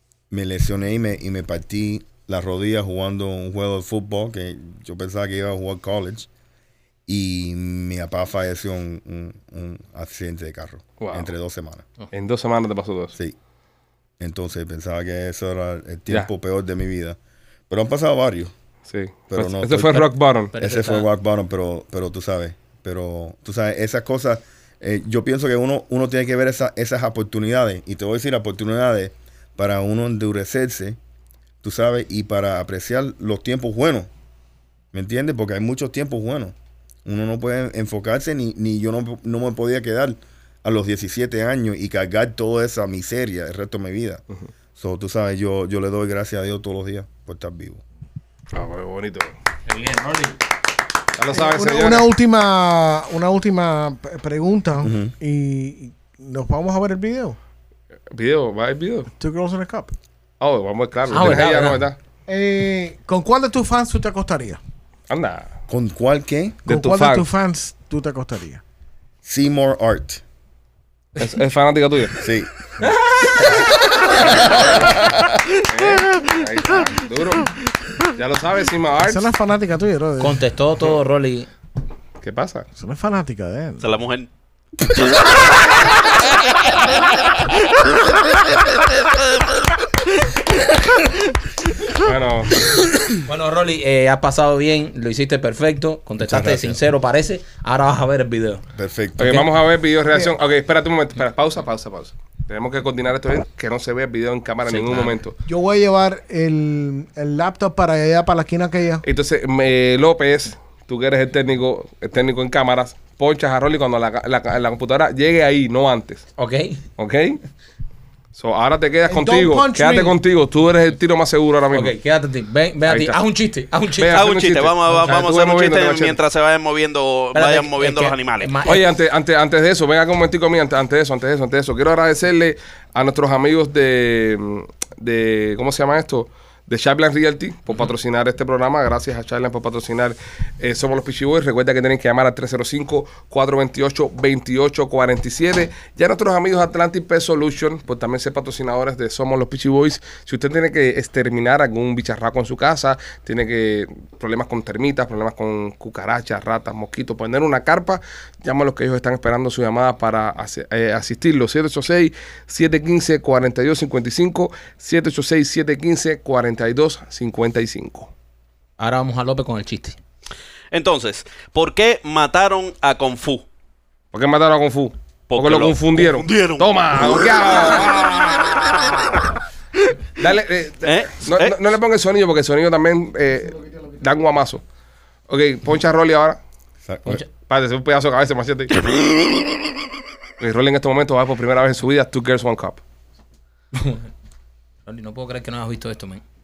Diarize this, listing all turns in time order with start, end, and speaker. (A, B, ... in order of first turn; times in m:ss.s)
0:00.3-0:06.3 A
0:07.1-0:11.9 A
0:11.0-0:11.3 B
0:12.1-0:13.1 B
0:14.2-0:17.2 A
0:17.7-0:18.5 A
0:18.9-0:20.5 B
0:19.3-0:31.0 A
0:20.5-0:21.0 C
0:31.6-0:34.1 A
0:34.9-0:44.2 A
0:44.8-0:47.8 A
0:48.5-0:49.4 B
0:49.6-0:50.4 C
0:51.2-0:52.1 B
0:51.3-0:57.4 D
0:54.8-0:55.1 A
0:58.1-0:59.1 B
0:59.2-0:59.9 D
1:00.4-1:02.0 B
1:01.1-1:01.8 C
1:02.3-1:04.6 D
1:05.1-1:05.5 B
1:05.7-1:06.6 A
1:06.6-1:08.6 D
1:06.7-1:07.3 B
1:09.2-1:10.2 A
1:11.2-1:12.2 B
1:12.1-1:12.5 A
1:12.8-1:13.6 C
1:14.2-1:15.4 A
1:14.3-1:14.9 B
1:15.6-1:19.2 B
1:19.0-1:20.4 D
1:20.2-1:21.5 C
1:22.2-1:22.7 B
1:22.8-1:23.9 D
1:23.8-1:24.3 E
1:31.9-1:32.7 B
1:33.2-1:38.6 C
1:36.2-1:36.8 A
1:38.7-1:39.4 A
1:39.2-1:45.4 B
1:39.2-1:39.5 C
1:44.7-1:45.1 C
1:45.5-1:49.0 D
1:49.0-1:56.2 B
1:56.4-1:56.8 C
1:57.0-1:57.4 B
1:58.3-2:01.9 B
1:59.1-2:00.1 D
2:01.7-2:04.2 C
2:02.9-2:03.2 B
2:04.0-2:06.2 B
2:04.1-2:08.6 E
2:07.3-2:08.8 C
2:08.6-2:48.1 B
2:48.8-2:50.0 C
2:50.7-2:53.4 E
2:54.1-2:59.2 B
2:55.3-2:57.4 E
3:00.2-3:04.6 B
3:00.8-3:01.6 E
3:05.3-3:06.4 B
3:06.8-3:07.2 A
3:07.3-3:08.8 B
3:10.4-3:12.8 B
3:13.8-3:14.0 C
3:14.8-3:16.2 C